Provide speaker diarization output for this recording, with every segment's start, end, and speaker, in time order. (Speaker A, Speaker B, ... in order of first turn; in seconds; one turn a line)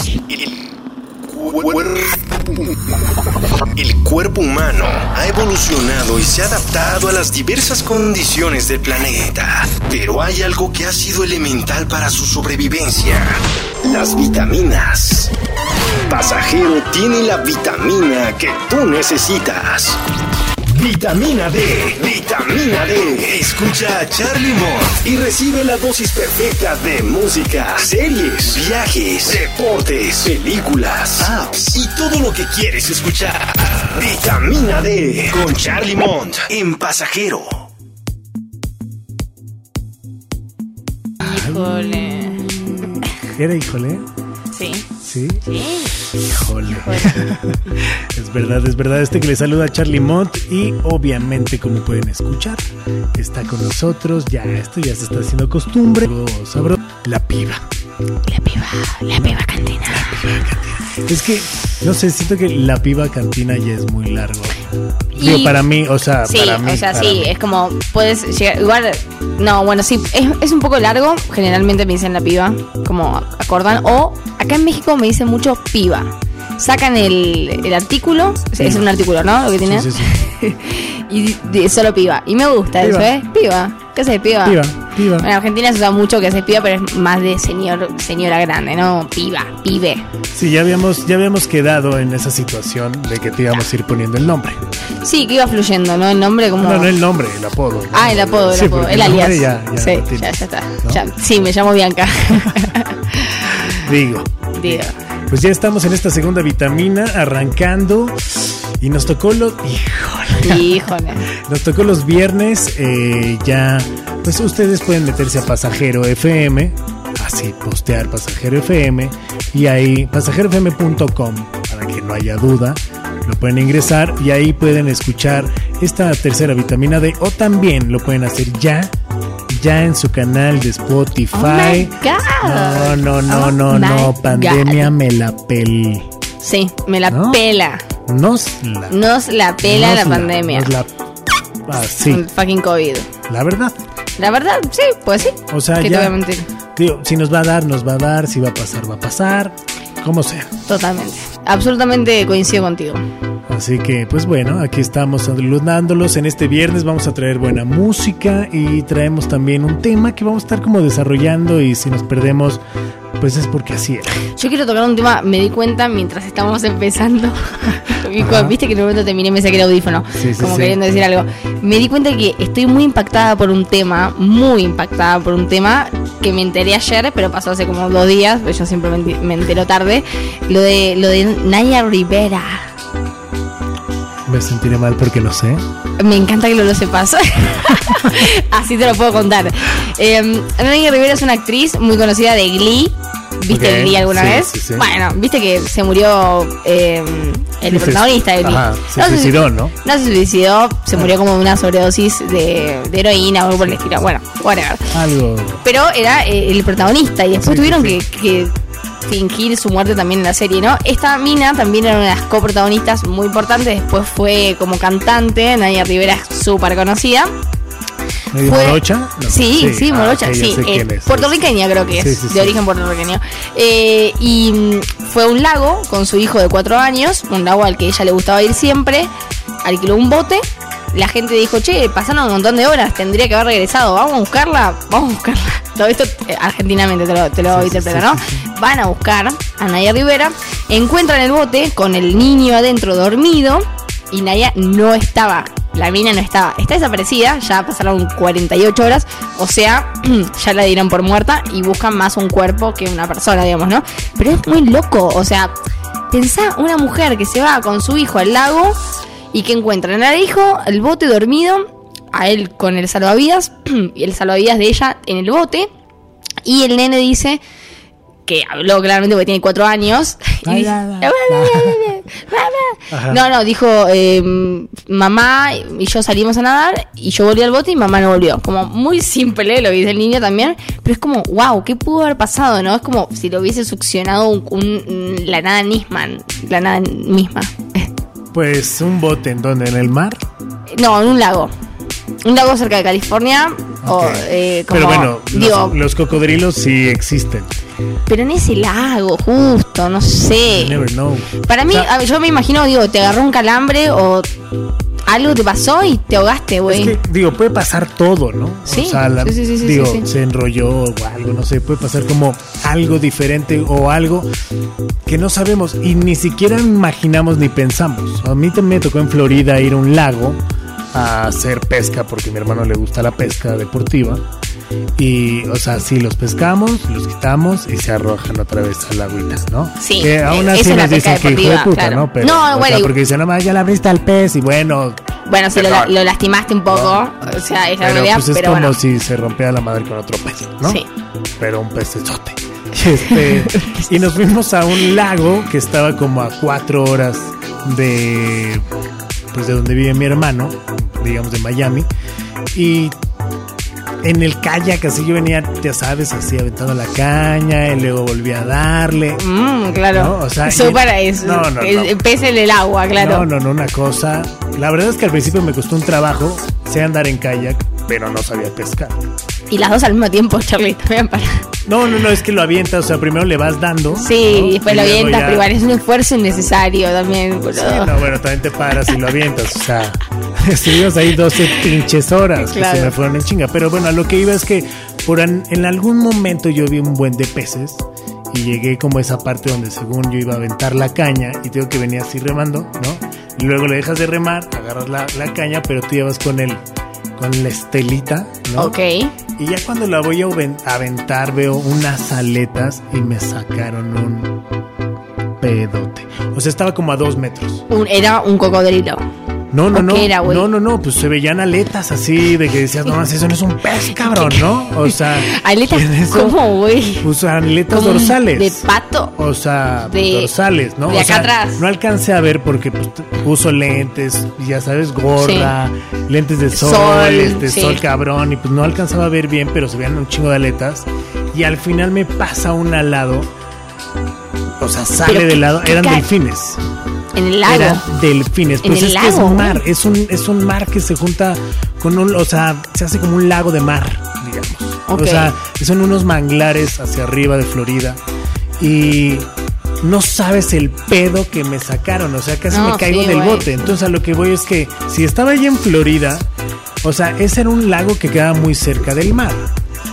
Speaker A: 0.3-0.6
Speaker A: 1.3-2.2
Speaker A: 3.7-15.3
Speaker A: 16.0-20.0
Speaker A: 20.7-37.7
Speaker B: 41.2-41.9
Speaker C: 41.2-43.1
Speaker B: 43.4-44.1
Speaker C: 44.5-44.9
Speaker B: 45.0-45.4
Speaker C: 45.4-47.3
Speaker B: 46.2-57.6
Speaker C: 58.3-60.3
Speaker B: 59.2-64.6
Speaker B: 65.1-67.3
Speaker C: 65.2-65.6
Speaker C: 66.2-90.0
Speaker B: 78.6-78.9
Speaker B: 79.7-80.2
Speaker B: 82.8-83.1
Speaker B: 84.4-85.3
Speaker B: 90.3-94.6
Speaker C: 95.0-96.9
Speaker B: 96.6-101.0
Speaker C: 97.9-103.8
Speaker B: 103.7-128.9
Speaker C: 104.5-105.0
Speaker C: 110.4-111.2
Speaker B: 129.5-136.1
Speaker C: 131.3-134.9
Speaker C: 136.4-137.8
Speaker B: 137.1-137.4
Speaker B: 138.1-139.0
Speaker C: 138.9-140.7
Speaker B: 139.6-140.9
Speaker B: 141.7-142.2
Speaker C: 142.1-143.1
Speaker B: 143.3-143.8
Speaker C: 144.2-146.5
Speaker B: 145.5-146.2
Speaker B: 146.8-150.6
Speaker C: 150.7-153.0
Speaker B: 153.5-162.6
Speaker B: 163.2-164.2
Speaker C: 164.3-182.7
Speaker B: 168.2-168.6
Speaker B: 170.2-170.8
Speaker B: 184.3-185.7
Speaker C: 186.0-204.9
Speaker B: 187.7-188.1
Speaker B: 193.5-194.9
Speaker B: 197.7-199.8
Speaker B: 204.9-205.7
Speaker C: 205.6-217.3
Speaker B: 207.4-208.0
Speaker B: 218.3-221.4
Speaker C: 218.4-229.1
Speaker B: 221.9-222.6
Speaker C: 229.6-255.5
Speaker B: 237.5-238.5
Speaker C: 256.1-258.8
Speaker C: 259.3-265.7
Speaker C: 266.4-267.4
Speaker C: 268.3-287.9
Speaker B: 270.4-271.8
Speaker B: 272.9-273.2
Speaker B: 288.3-290.2
Speaker C: 290.7-291.5
Speaker C: 292.2-295.8
Speaker B: 293.8-297.6
Speaker C: 298.1-300.8
Speaker B: 300.5-301.9
Speaker C: 301.4-304.3
Speaker C: 305.1-307.0
Speaker B: 306.7-314.3
Speaker C: 308.7-310.1
Speaker B: 315.1-320.4
Speaker B: 320.9-324.3
Speaker B: 325.0-335.0
Speaker C: 329.8-332.9
Speaker C: 335.3-338.8
Speaker B: 335.5-336.0
Speaker B: 336.7-337.0
Speaker B: 337.8-340.8
Speaker B: 341.4-348.7
Speaker C: 343.1-343.8
Speaker B: 349.3-351.9
Speaker B: 352.5-353.0
Speaker B: 354.0-359.2
Speaker C: 359.2-363.3
Speaker B: 359.9-362.0
Speaker B: 362.9-369.0
Speaker C: 369.5-371.5
Speaker B: 371.7-375.5
Speaker C: 373.9-378.0
Speaker B: 377.5-396.6
Speaker C: 381.4-381.7
Speaker C: 382.4-382.9
Speaker B: 397.2-398.8
Speaker C: 398.6-399.1
Speaker B: 399.4-404.4
Speaker B: 405.4-407.6
Speaker C: 407.7-409.0
Speaker B: 409.5-416.4
Speaker C: 409.7-410.5
Speaker C: 414.0-417.1
Speaker B: 417.0-418.6
Speaker C: 417.7-419.1
Speaker B: 419.2-433.3
Speaker C: 419.9-420.3
Speaker C: 420.9-421.6
Speaker C: 425.2-425.5
Speaker C: 426.5-427.8
Speaker B: 434.6-436.6
Speaker C: 435.1-436.1
Speaker C: 437.1-437.9
Speaker B: 437.4-448.0
Speaker C: 438.6-439.6
Speaker C: 444.9-445.3
Speaker B: 448.6-449.3
Speaker B: 449.8-456.3
Speaker C: 452.5-453.7
Speaker B: 456.8-459.5